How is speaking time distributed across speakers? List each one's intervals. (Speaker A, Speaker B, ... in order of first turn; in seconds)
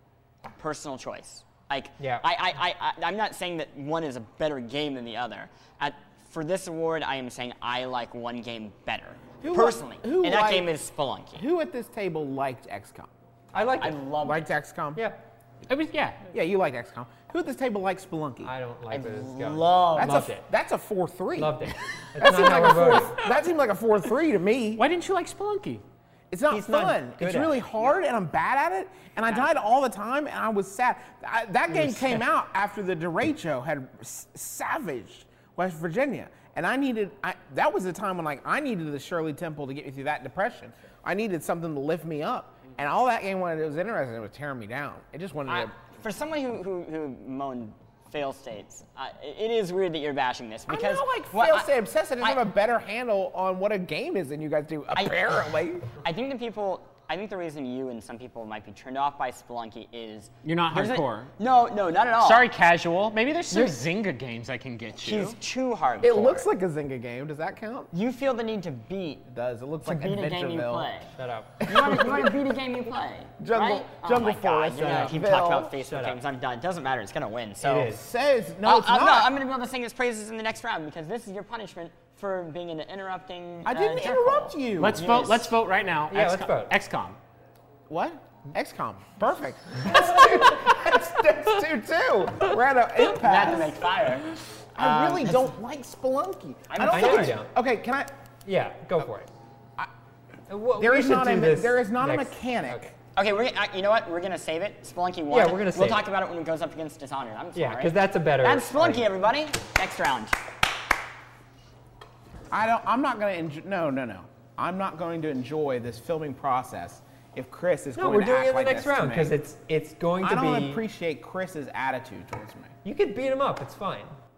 Speaker A: 0.5-11.5, 13.8-14.5, 18.9-20.3, 45.5-51.7, 54.9-55.3, 56.0-62.5, 63.5-63.8, 65.0-66.5, 67.9-69.2, 69.8-71.1, 71.7-77.9, 78.6-85.5, 93.1-95.5, 96.7-97.4, 103.2-110.4
Speaker B: 2.0-2.2, 13.5-14.0, 18.4-20.4, 21.4-23.2, 26.5-27.6, 71.2-71.6, 74.8-75.2, 75.8-76.2, 77.6-78.0, 86.1-86.7, 96.8-97.5, 98.5-99.3, 100.5-102.9, 105.3-106.0, 107.6-109.1, 118.0-120.8, 122.8-124.1
Speaker C: 9.4-10.7, 11.4-13.1, 14.2-15.0, 16.3-18.5, 19.9-24.8, 26.3-45.7, 50.7-55.9, 66.0-67.9, 69.3-70.9, 71.6-72.4, 73.4-75.7, 77.9-79.3, 83.7-85.4, 87.9-93.9, 94.8-98.1, 100.8-103.0, 112.5-119.4, 120.2-122.8
Speaker D: 15.7-16.2, 24.8-25.8, 60.4-61.3, 62.2-65.4, 84.8-87.2